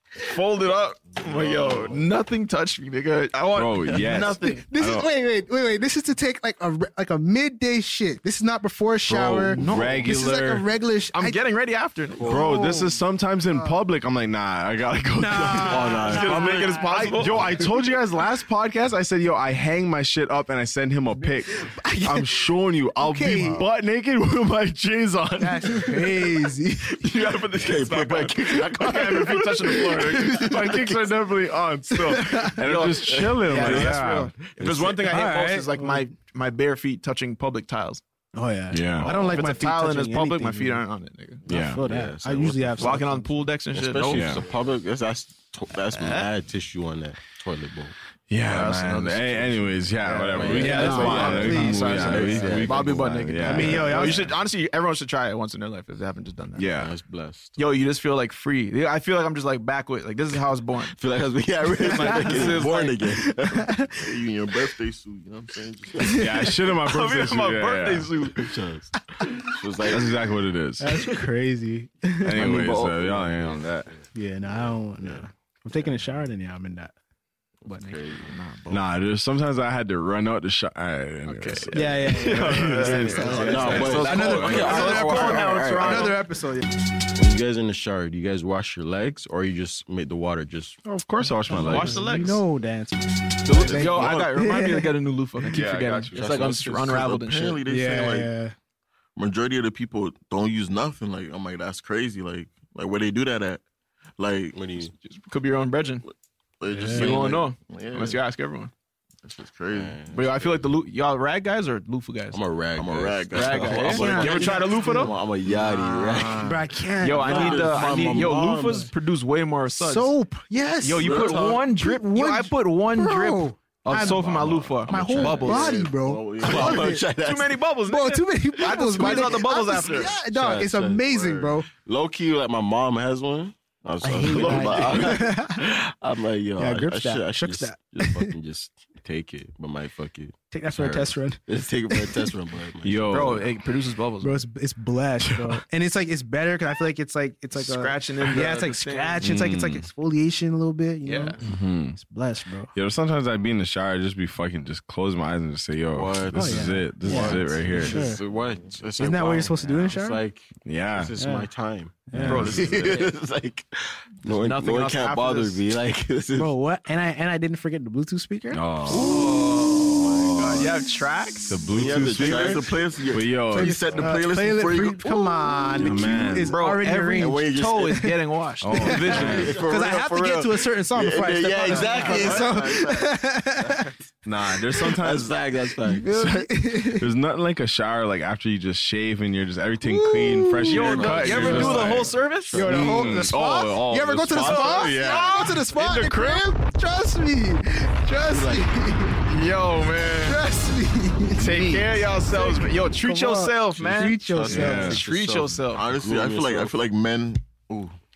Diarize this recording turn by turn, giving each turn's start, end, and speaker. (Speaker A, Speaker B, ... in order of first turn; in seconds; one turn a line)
Speaker A: 0.2-4.7
Speaker B: 1.2-2.0
Speaker C: 3.5-5.1
Speaker B: 4.1-4.3
Speaker D: 4.4-11.4
Speaker C: 9.1-10.7
Speaker A: 9.6-10.2
Speaker A: 11.1-12.3
Speaker B: 12.1-12.6
Speaker C: 12.2-26.2
Speaker D: 12.3-13.8
Speaker D: 15.2-16.6
Speaker B: 15.7-17.5
Speaker A: 15.9-17.7
Speaker D: 21.8-22.4
Speaker D: 23.0-23.6
Speaker D: 25.4-27.0
Speaker A: 27.0-30.6
Speaker B: 27.6-31.1
Speaker C: 28.9-29.4
Speaker C: 30.2-34.9
Speaker D: 32.1-32.6
Speaker A: 32.6-38.0
Speaker B: 33.1-35.0
Speaker D: 35.1-36.1
Speaker D: 38.4-40.8
Speaker C: 38.7-39.4
Speaker A: 39.0-41.4
Speaker B: 41.5-43.1
Speaker C: 41.5-41.8
Speaker D: 41.5-43.3
Speaker A: 42.8-44.4
Speaker B: 43.7-47.9
Speaker C: 44.1-44.5
Speaker A: 45.9-46.3
Speaker C: 48.3-54.3
Speaker A: 48.5-56.7
Speaker B: 50.1-53.1
Speaker D: 50.1-52.6
Speaker D: 53.5-54.2
Speaker C: 56.5-56.9
Speaker B: 56.8-57.5
Speaker A: 57.6-61.0
Speaker B: 61.0-63.9
Speaker A: 61.8-63.0
Speaker D: 61.9-62.7
Speaker D: 63.2-63.9
Speaker E: 64.0-66.2
Speaker D: 66.0-66.3
Speaker C: 66.0-68.2
Speaker A: 66.6-68.5
Speaker B: 68.3-70.2
Speaker C: 69.8-71.1
Speaker D: 70.8-72.5
Speaker C: 72.2-73.9
Speaker B: 72.3-74.1
Speaker D: 74.1-76.9
Speaker B: 75.0-75.3
Speaker B: 77.6-78.4
Speaker D: 77.7-77.9
Speaker A: 78.2-78.8
Speaker C: 78.7-85.0
Speaker A: 81.3-86.1
Speaker D: 81.7-86.7
Speaker B: 83.3-86.2
Speaker B: 87.2-90.8
Speaker C: 90.8-92.1
Speaker D: 91.5-94.9
Speaker A: 91.6-92.4
Speaker A: 93.5-97.6
Speaker B: 93.5-94.3
Speaker C: 95.5-96.6
Speaker B: 96.2-97.1
Speaker E: 96.4-98.3
Speaker D: 97.7-98.5
Speaker E: 99.2-103.6
Speaker E: 104.2-104.6
Speaker B: 104.5-104.9
Speaker A: 105.0-106.0
Speaker E: 106.6-108.2
Speaker D: 106.7-107.1
Speaker A: 106.9-108.7
Speaker E: 109.2-110.0
Speaker B: 109.7-110.6
Speaker A: 110.1-112.4
Speaker B: 112.3-116.5
Speaker E: 112.8-114.5
Speaker A: 113.3-115.1
Speaker D: 113.9-115.1
Speaker E: 115.7-116.5
Speaker A: 116.1-116.3
Speaker D: 116.4-118.9
Speaker A: 117.0-120.1
Speaker B: 117.1-118.9
Speaker D: 119.7-124.3
Speaker A: 120.8-125.8
Speaker B: 121.0-121.7
Speaker B: 123.9-127.6
Speaker D: 124.9-127.0
Speaker A: 126.4-130.1
Speaker D: 127.9-131.7
Speaker B: 128.6-143.5
Speaker D: 134.0-135.7
Speaker C: 134.3-135.2
Speaker D: 136.6-138.3
Speaker D: 140.5-142.2
Speaker C: 142.8-143.5
Speaker A: 143.1-144.4
Speaker D: 144.2-151.4
Speaker A: 147.6-149.2
Speaker C: 149.2-149.9
Speaker A: 151.1-151.4
Speaker C: 151.4-152.0
Speaker D: 151.9-152.7
Speaker C: 152.7-158.1
Speaker B: 155.9-166.5
Speaker D: 156.3-158.2
Speaker D: 159.0-160.2
Speaker C: 160.7-161.1
Speaker D: 161.2-161.5
Speaker D: 162.1-162.7
Speaker C: 162.1-162.7
Speaker A: 162.2-163.1
Speaker A: 164.3-165.6
Speaker D: 166.4-168.6
Speaker B: 168.5-170.7
Speaker C: 168.9-169.2
Speaker A: 168.9-172.6
Speaker C: 170.2-170.7
Speaker C: 171.5-173.9
Speaker B: 171.5-175.1
Speaker E: 172.2-173.1
Speaker D: 173.5-178.1
Speaker E: 173.6-175.0
Speaker C: 175.8-176.6
Speaker A: 176.5-179.7
Speaker B: 177.2-178.1
Speaker C: 178.6-179.6
Speaker D: 178.7-183.9
Speaker B: 178.8-183.9
Speaker A: 181.7-182.4
Speaker C: 184.2-185.3
Speaker B: 185.0-186.1
Speaker D: 185.8-187.1
Speaker C: 186.1-195.5
Speaker D: 189.8-191.8
Speaker A: 190.7-192.8
Speaker B: 190.7-193.3
Speaker D: 192.5-199.2
Speaker A: 194.3-196.6
Speaker B: 198.3-198.7
Speaker A: 199.3-200.4
Speaker D: 200.2-205.0
Speaker A: 201.4-205.9
Speaker B: 203.7-206.8
Speaker C: 204.5-205.0
Speaker E: 205.8-207.6